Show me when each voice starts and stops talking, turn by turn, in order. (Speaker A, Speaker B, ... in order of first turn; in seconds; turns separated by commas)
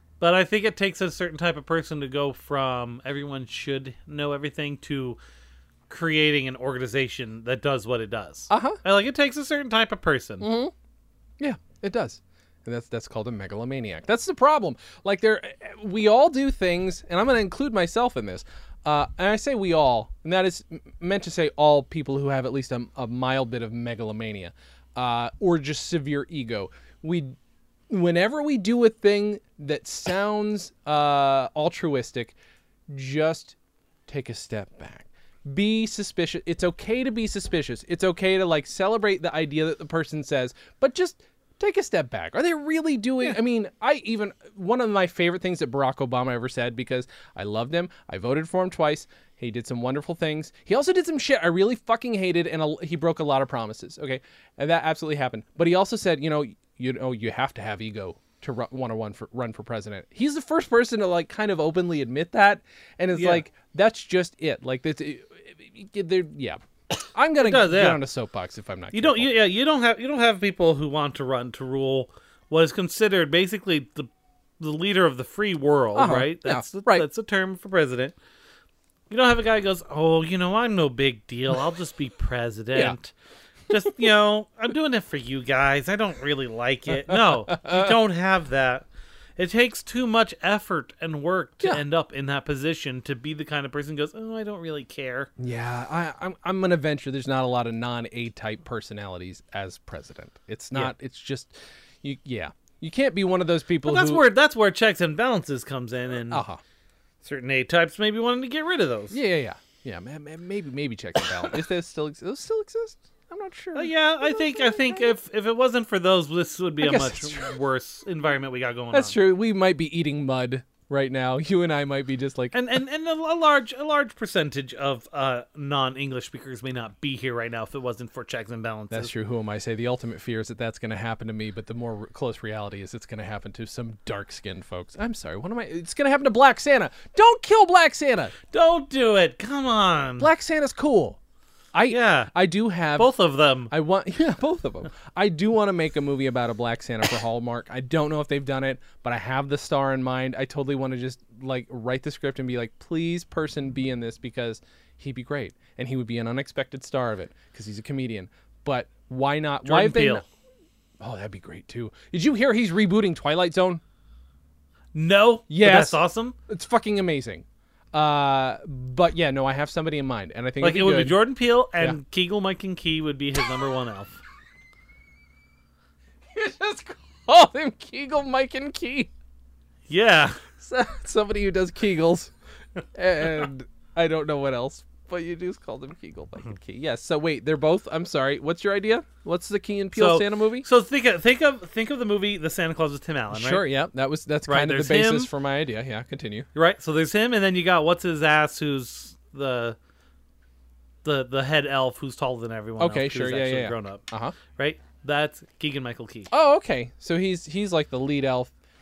Speaker A: 0.2-5.2, Speaker A: 5.9-10.5, Speaker B: 8.5-8.8, Speaker B: 10.4-10.7, Speaker B: 11.4-27.4, Speaker B: 27.9-32.4, Speaker B: 32.9-33.5, Speaker B: 34.1-66.6, Speaker A: 63.1-63.4, Speaker B: 67.1-69.3, Speaker A: 67.4-68.0, Speaker A: 68.9-78.1, Speaker B: 75.9-77.0, Speaker A: 79.1-83.1, Speaker A: 83.7-88.9, Speaker B: 87.1-87.9, Speaker A: 89.4-95.3, Speaker B: 95.4-104.2, Speaker A: 103.8-106.4, Speaker B: 106.3-106.6, Speaker A: 107.2-109.2, Speaker B: 109.1-115.1, Speaker A: 113.7-119.2, Speaker B: 116.8-117.5, Speaker B: 118.9-122.6, Speaker A: 122.5-129.1, Speaker B: 128.9-138.3, Speaker A: 138.5-140.3, Speaker B: 140.2-141.2, Speaker B: 141.7-143.1, Speaker A: 141.9-142.3, Speaker A: 142.9-143.7, Speaker B: 143.7-160.2, Speaker A: 159.6-160.2, Speaker B: 161.0-163.8, Speaker A: 164.9-166.3, Speaker B: 165.5-171.2, Speaker A: 170.6-174.2, Speaker B: 176.3-179.1, Speaker A: 179.9-180.4, Speaker B: 180.6-182.3, Speaker B: 182.9-190.7, Speaker A: 189.9-193.6, Speaker B: 193.3-196.5, Speaker A: 194.5-195.3, Speaker A: 196.5-199.8, Speaker A: 201.0-204.0, Speaker B: 202.8-204.4, Speaker A: 204.6-206.3, Speaker B: 206.3-208.5